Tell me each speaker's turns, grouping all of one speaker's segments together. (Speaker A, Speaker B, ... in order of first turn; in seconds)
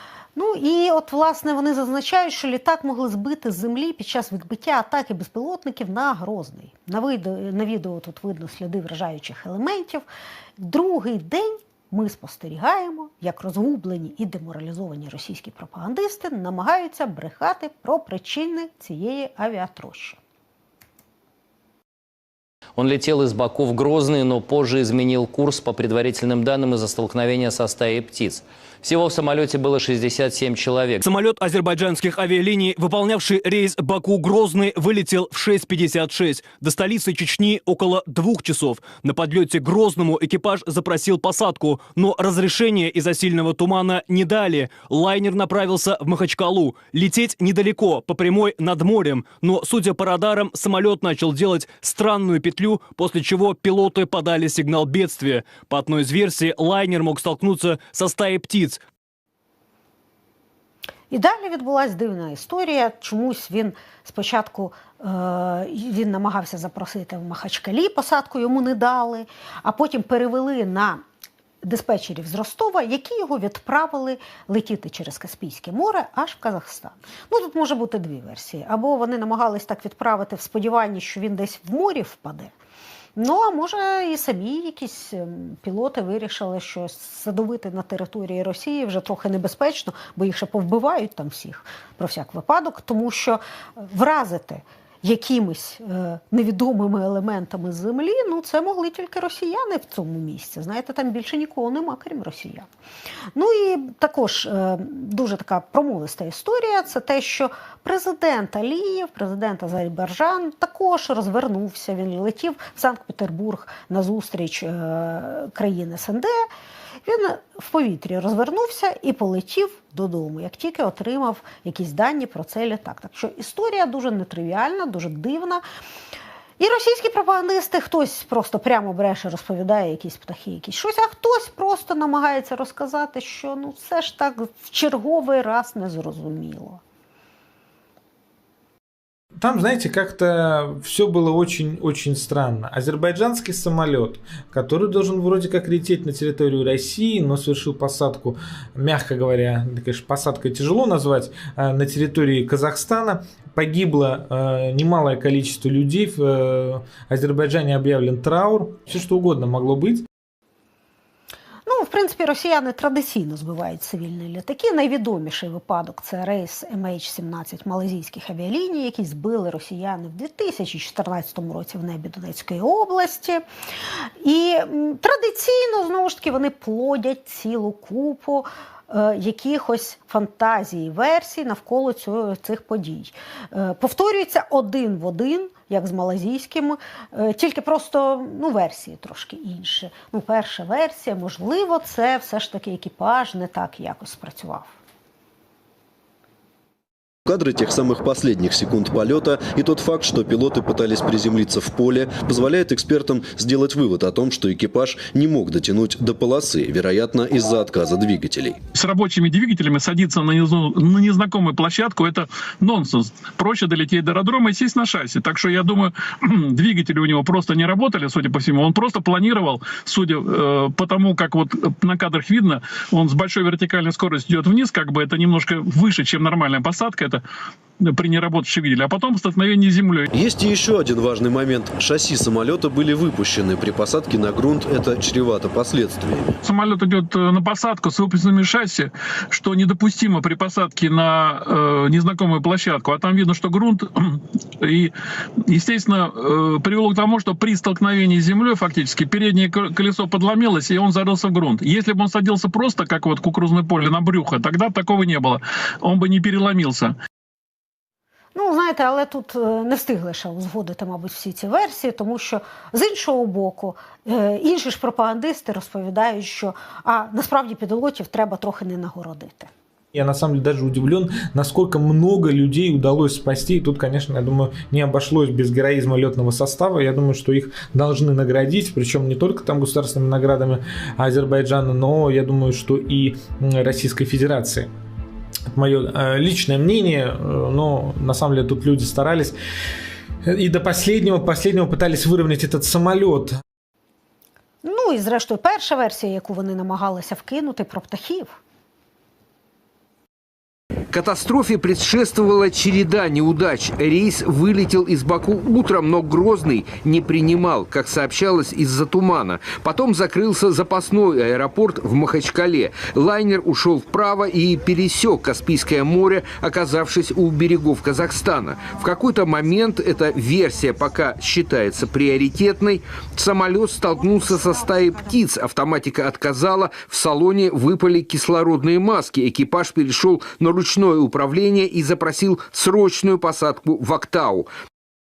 Speaker A: 0.3-10.1, 10.6-20.2, 61.1-71.0, 71.6-82.5, 83.2-102.7, 103.3-116.4, 117.0-125.6, 126.6-136.8, 161.7-173.4, 174.2-194.7, 258.4-269.5, 294.6-298.4
Speaker B: 22.8-31.0
Speaker C: 31.0-58.8
Speaker D: 139.4-160.1, 269.9-284.7, 285.5-289.4, 290.2-293.4
Speaker E: 197.3-208.6, 230.1-236.3
Speaker F: 208.8-227.2, 227.8-230.1, 236.4-244.9, 245.5-256.9
Speaker G: 300.9-334.5